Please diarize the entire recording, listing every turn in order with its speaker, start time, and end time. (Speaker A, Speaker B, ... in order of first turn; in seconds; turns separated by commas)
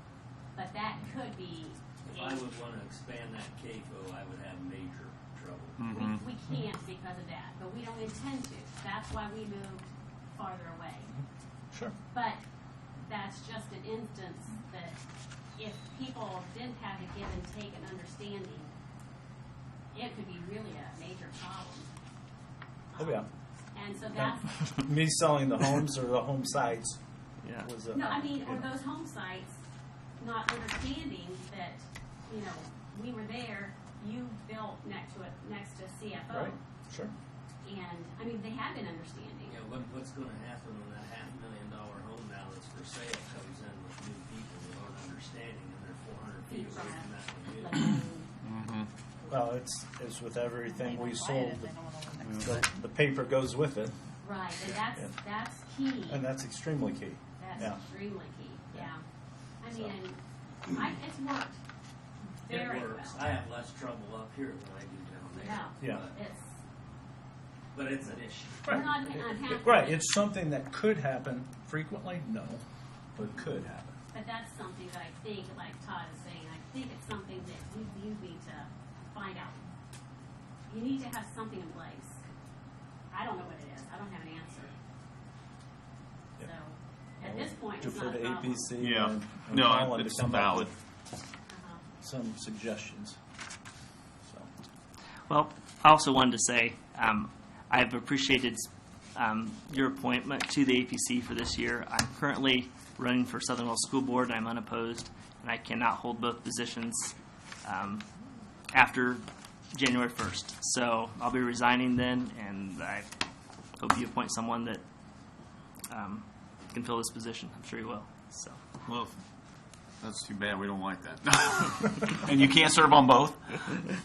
Speaker A: 0.5-2.4, Speaker B: 2.0-5.8, Speaker C: 5.8-6.2, Speaker A: 5.9-11.1, Speaker D: 11.1-11.9, Speaker A: 12.1-12.4, Speaker A: 13.0-15.0, Speaker A: 15.6-18.7, Speaker A: 19.9-21.9, Speaker A: 22.9-24.8, Speaker D: 23.0-23.3, Speaker D: 24.1-27.0, Speaker E: 27.4-27.7, Speaker D: 27.6-28.7, Speaker A: 27.9-29.6, Speaker A: 30.2-36.6, Speaker D: 36.3-37.1, Speaker A: 37.6-39.6, Speaker B: 39.4-48.0, Speaker A: 46.5-48.3, Speaker C: 48.4-48.9, Speaker D: 49.3-51.7, Speaker F: 50.6-52.7, Speaker C: 52.2-52.5, Speaker D: 52.4-53.9, Speaker A: 54.2-56.2, Speaker D: 54.6-55.2, Speaker D: 56.1-57.8, Speaker A: 57.4-59.0, Speaker A: 59.6-61.6, Speaker D: 59.7-59.9, Speaker A: 62.3-63.3, Speaker B: 62.5-66.2, Speaker A: 65.4-66.5, Speaker D: 65.8-66.1, Speaker B: 67.7-69.3, Speaker D: 68.6-72.6, Speaker A: 68.7-70.0, Speaker D: 73.1-73.9, Speaker A: 74.1-79.7, Speaker A: 80.7-82.2, Speaker A: 83.1-84.7, Speaker A: 86.4-88.7, Speaker D: 87.2-90.7, Speaker C: 88.8-90.7, Speaker A: 91.5-91.8, Speaker D: 92.0-93.2, Speaker D: 94.2-94.5, Speaker E: 95.3-108.0, Speaker E: 108.7-113.1, Speaker E: 113.8-114.8, Speaker E: 115.9-118.6, Speaker C: 118.8-119.1, Speaker C: 120.0-123.8